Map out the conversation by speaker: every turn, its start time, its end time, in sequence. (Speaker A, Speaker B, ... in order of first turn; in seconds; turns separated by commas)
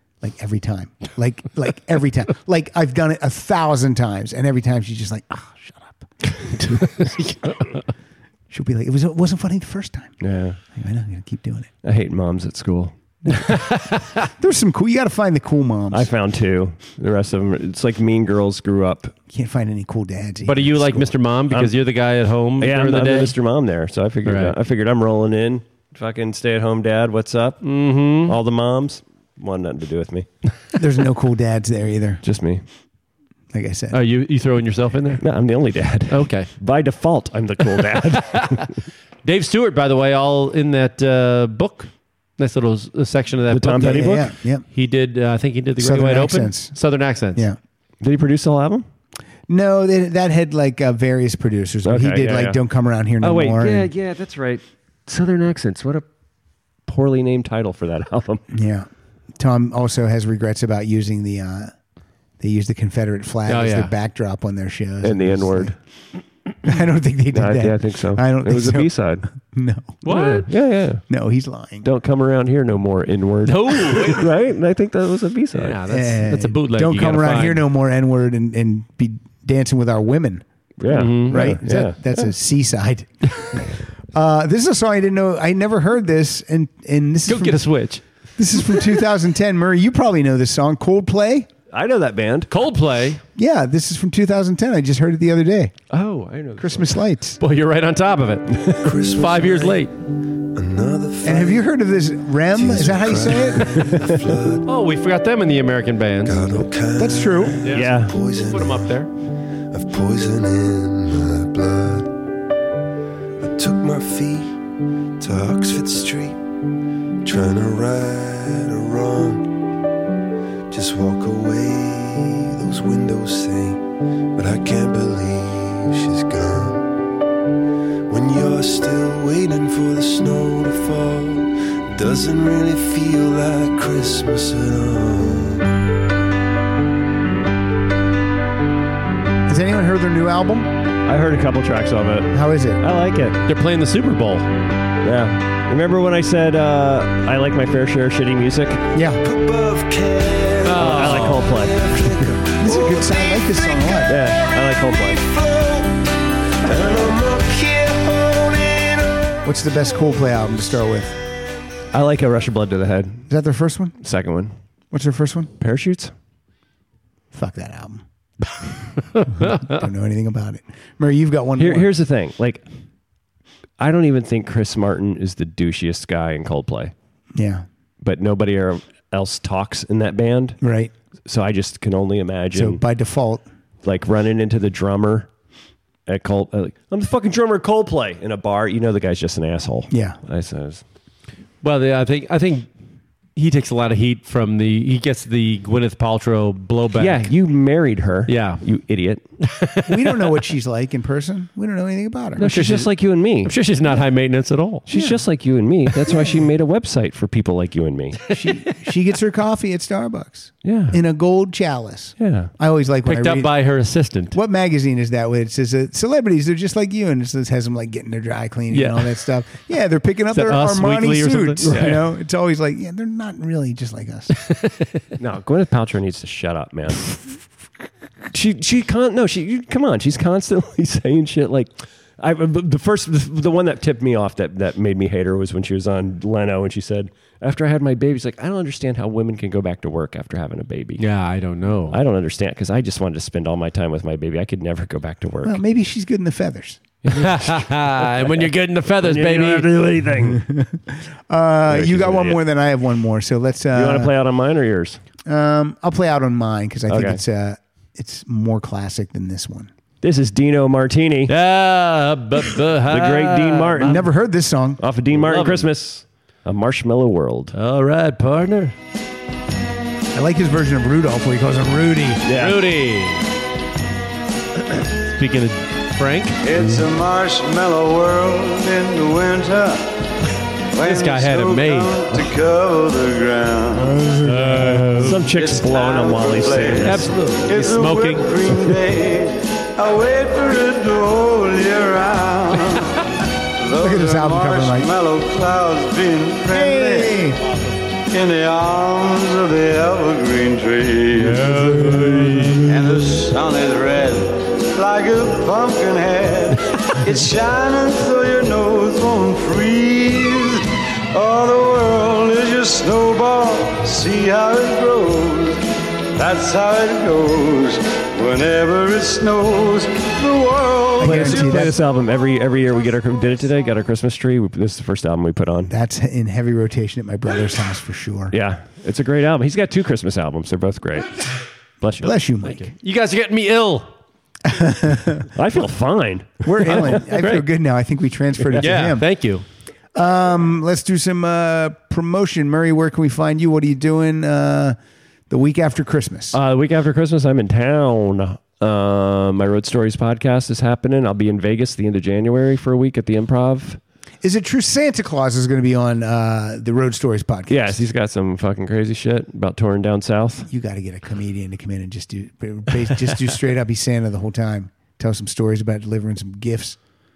Speaker A: 0.2-7.1, Speaker B: 6.8-7.8, Speaker A: 8.5-10.2, Speaker C: 10.2-10.6, Speaker A: 10.7-11.7, Speaker C: 11.8-12.9, Speaker B: 13.4-14.1, Speaker A: 14.4-16.1, Speaker C: 15.9-19.1, Speaker A: 19.3-21.1, Speaker B: 20.4-23.4, Speaker C: 21.5-21.7, Speaker C: 22.6-27.6, Speaker B: 24.2-24.6, Speaker B: 27.6-28.3, Speaker C: 28.3-30.3, Speaker A: 30.8-32.2, Speaker C: 32.2-32.6, Speaker A: 33.5-34.0, Speaker B: 33.9-35.2, Speaker C: 35.2-38.7, Speaker B: 36.1-36.5, Speaker B: 38.3-38.6, Speaker B: 39.2-47.4, Speaker C: 43.5-44.3, Speaker A: 43.8-44.6, Speaker A: 45.8-46.8, Speaker C: 48.0-48.9, Speaker A: 49.5-53.9, Speaker C: 51.8-52.6, Speaker C: 53.2-56.0, Speaker C: 56.9-58.4, Speaker A: 58.5-61.7, Speaker A: 62.4-65.7, Speaker B: 63.5-63.9, Speaker C: 65.0-65.7, Speaker A: 66.6-70.0, Speaker C: 67.3-69.3, Speaker B: 70.0-70.5, Speaker C: 70.1-71.0, Speaker A: 71.1-71.9, Speaker C: 71.8-75.8, Speaker B: 73.5-74.3, Speaker B: 75.5-77.6, Speaker A: 75.8-80.4, Speaker C: 80.8-82.3, Speaker B: 80.9-81.5, Speaker A: 81.3-83.6, Speaker A: 84.1-87.6, Speaker B: 87.3-88.0, Speaker A: 88.4-91.5, Speaker C: 91.7-92.5, Speaker B: 92.5-93.2, Speaker A: 93.3-95.7, Speaker C: 95.9-96.9, Speaker A: 96.6-97.4, Speaker B: 97.4-99.9, Speaker D: 98.8-99.8, Speaker D: 100.5-101.7, Speaker A: 101.2-104.0, Speaker D: 102.5-104.7, Speaker B: 104.7-106.4, Speaker D: 106.2-108.9, Speaker A: 107.0-107.6, Speaker B: 107.6-109.1, Speaker C: 107.7-108.1, Speaker D: 109.7-112.1, Speaker D: 113.4-114.6, Speaker D: 115.2-116.4, Speaker D: 117.2-119.5, Speaker D: 120.7-126.9, Speaker D: 128.1-135.6, Speaker A: 139.5-140.7, Speaker C: 141.1-143.4, Speaker A: 142.3-142.8, Speaker B: 143.4-144.5, Speaker C: 145.0-148.8, Speaker A: 148.9-149.2, Speaker B: 150.6-151.5, Speaker C: 150.7-151.8, Speaker A: 152.2-154.2, Speaker C: 154.1-155.2, Speaker A: 159.4-161.2, Speaker C: 161.9-163.2, Speaker A: 163.3-163.9, Speaker C: 164.0-164.5, Speaker A: 164.9-165.5, Speaker C: 165.6-166.1, Speaker A: 167.3-168.1, Speaker B: 169.1-169.8, Speaker A: 169.2-171.9, Speaker C: 171.6-172.6, Speaker C: 173.8-176.9, Speaker A: 177.3-177.6, Speaker C: 178.0-180.6, Speaker A: 180.6-180.9, Speaker C: 181.2-182.8, Speaker A: 182.5-183.4, Speaker C: 183.8-185.3, Speaker C: 186.1-190.8, Speaker A: 189.9-190.2, Speaker B: 191.6-192.7, Speaker B: 193.3-197.3, Speaker C: 197.0-199.2, Speaker B: 198.3-198.6, Speaker B: 199.4-200.3, Speaker A: 199.9-202.6, Speaker C: 202.4-203.5, Speaker B: 202.4-202.9, Speaker B: 203.4-204.9, Speaker C: 204.9-208.2, Speaker A: 204.9-205.2, Speaker A: 208.3-213.5, Speaker C: 210.6-211.0, Speaker C: 212.2-212.5, Speaker B: 213.1-214.3, Speaker A: 214.3-224.3, Speaker B: 218.7-219.1, Speaker B: 220.3-221.9, Speaker C: 221.6-222.0, Speaker C: 225.2-227.2, Speaker C: 228.3-241.1, Speaker B: 241.0-242.0, Speaker C: 241.9-245.6, Speaker A: 245.4-246.8, Speaker B: 247.1-249.7, Speaker C: 247.2-248.5, Speaker C: 249.0-250.4, Speaker A: 250.3-254.1, Speaker C: 251.7-252.4, Speaker C: 253.7-255.0, Speaker A: 255.2-259.7, Speaker C: 256.9-257.2, Speaker C: 260.0-261.3, Speaker B: 261.3-264.1, Speaker C: 262.9-264.0, Speaker A: 263.8-264.8, Speaker C: 264.8-267.5, Speaker B: 265.1-265.7, Speaker B: 267.5-268.7, Speaker A: 270.1-272.2, Speaker C: 272.2-272.6, Speaker B: 272.4-273.2, Speaker B: 275.0-276.4, Speaker E: 276.4-279.8, Speaker E: 280.7-284.0, Speaker B: 280.8-282.2, Speaker A: 283.7-285.1, Speaker B: 284.2-285.3, Speaker C: 284.9-287.1, Speaker E: 285.3-293.0, Speaker B: 286.8-288.6, Speaker E: 293.6-297.2, Speaker A: 293.7-294.9, Speaker A: 296.5-297.4, Speaker E: 298.1-301.5, Speaker B: 301.4-302.6, Speaker E: 302.6-315.6, Speaker E: 316.1-321.7, Speaker C: 321.0-325.7, Speaker A: 321.0-321.8, Speaker A: 325.7-328.3, Speaker C: 328.3-331.2, Speaker C: 331.8-332.1, Speaker A: 332.0-332.7, Speaker B: 332.4-333.9, Speaker A: 334.5-335.3, Speaker C: 335.4-337.0, Speaker A: 336.4-339.1, Speaker B: 336.7-337.4, Speaker B: 338.6-339.4, Speaker A: 339.9-344.8, Speaker A: 345.3-346.4, Speaker C: 346.3-353.8, Speaker A: 354.2-357.8, Speaker C: 357.5-360.5, Speaker A: 360.5-366.8